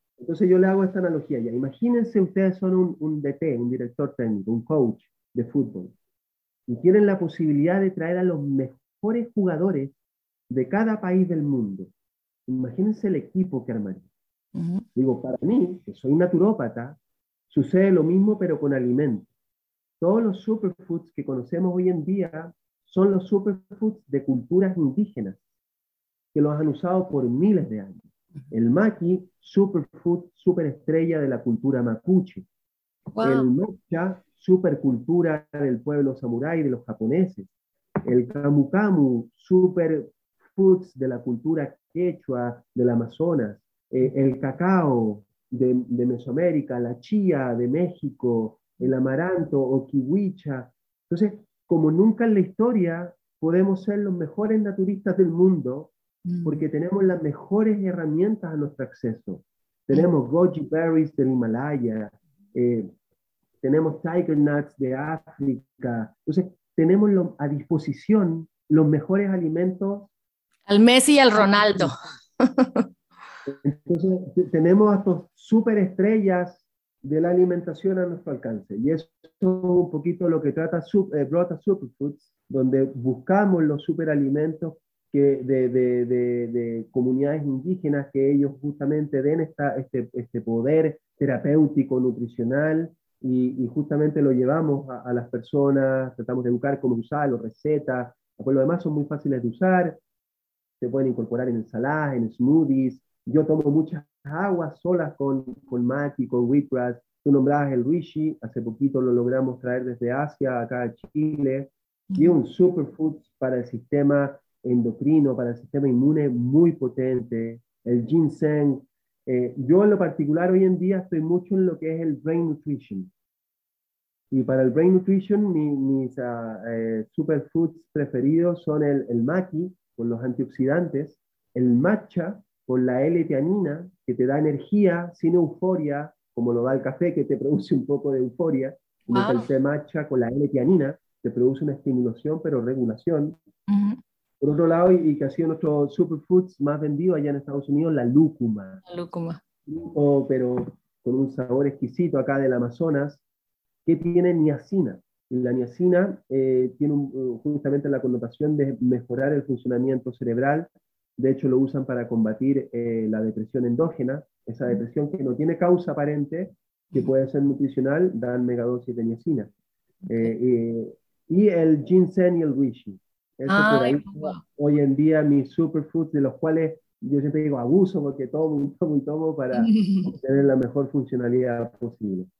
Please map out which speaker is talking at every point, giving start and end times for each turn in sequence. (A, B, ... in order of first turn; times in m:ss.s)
0:00.2-0:05.9 A
0:06.7-0:09.9 A
0:10.5-0:11.9 A
0:12.5-0:14.1 A
0:14.5-0:14.8 B
0:14.9-0:17.0 A
0:17.5-0:19.3 A
0:20.0-0:25.4 A
0:26.3-0:32.4 A
0:33.1-0:33.5 B
0:33.2-0:37.5 A
0:38.0-0:55.9 A
0:56.2-0:56.6 B
0:56.4-1:02.9 A
1:03.6-1:10.1 A
1:10.7-1:12.8 B
1:11.4-1:12.1 A
1:13.4-1:40.0 A
1:40.8-2:03.1 A
1:52.1-1:52.3 B
2:04.3-2:23.4 A
2:19.1-2:19.5 B
2:23.7-2:24.0 B
2:24.4-2:28.8 A
2:28.8-2:29.4 B
2:29.7-2:33.2 A
2:33.8-2:49.5 A
2:50.0-2:50.3 B
2:50.1-3:02.3 A
2:53.5-2:54.4 B
2:59.6-3:00.1 B